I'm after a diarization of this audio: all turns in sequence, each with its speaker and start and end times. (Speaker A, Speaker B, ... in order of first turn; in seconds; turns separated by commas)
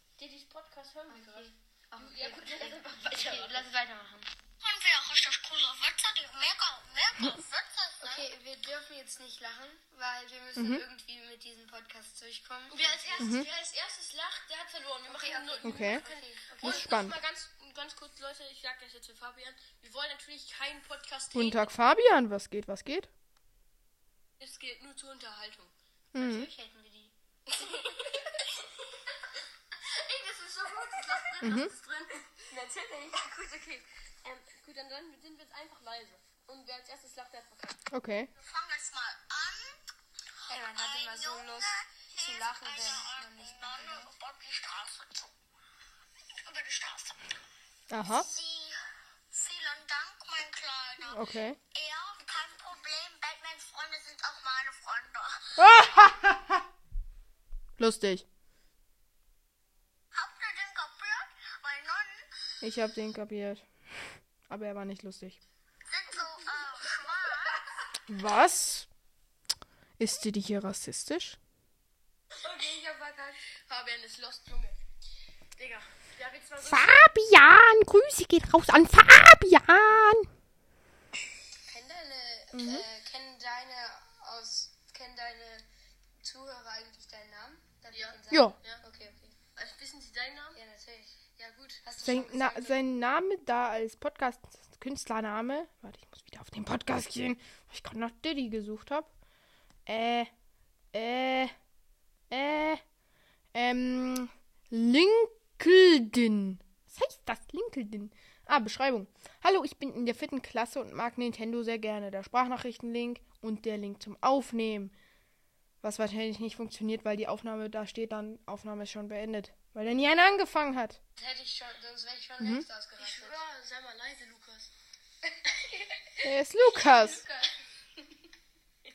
Speaker A: 0.2-3.7, Speaker B: 1.1-4.3, Speaker C: 4.6-8.3, Speaker B: 8.0-13.5, Speaker D: 10.6-10.8, Speaker A: 12.7-21.7, Speaker D: 13.2-13.5, Speaker B: 15.1-17.0, Speaker D: 15.6-16.0, Speaker D: 16.6-17.1, Speaker D: 21.3-23.1, Speaker A: 24.4-25.7, Speaker D: 26.1-26.5, Speaker B: 26.1-28.5, Speaker A: 27.6-28.4, Speaker A: 29.9-37.8, Speaker D: 31.4-31.7, Speaker D: 37.9-38.3, Speaker C: 38.4-39.8, Speaker B: 40.5-44.2, Speaker C: 40.8-45.3, Speaker C: 46.4-47.3, Speaker D: 47.9-48.3, Speaker C: 48.1-55.6, Speaker D: 51.1-51.6, Speaker D: 55.6-56.6, Speaker D: 57.8-58.2, Speaker C: 60.1-62.2, Speaker D: 62.6-65.4, Speaker C: 65.9-67.6, Speaker D: 68.1-68.9, Speaker D: 70.0-71.4, Speaker A: 72.3-74.8, Speaker A: 75.5-77.0, Speaker D: 76.6-80.3, Speaker B: 81.6-85.7, Speaker D: 82.5-82.9, Speaker B: 86.2-89.4, Speaker A: 87.9-88.8, Speaker D: 88.3-88.6, Speaker A: 89.5-90.6, Speaker B: 90.5-91.2, Speaker A: 91.4-91.8, Speaker B: 91.8-92.8, Speaker D: 92.0-99.1, Speaker D: 99.8-100.3, Speaker D: 100.9-101.5, Speaker D: 102.3-102.8, Speaker D: 103.5-114.9, Speaker D: 115.8-121.0, Speaker B: 121.2-123.4, Speaker D: 122.4-122.7, Speaker A: 123.0-124.7, Speaker B: 125.5-125.8, Speaker D: 126.2-127.2, Speaker B: 127.0-127.5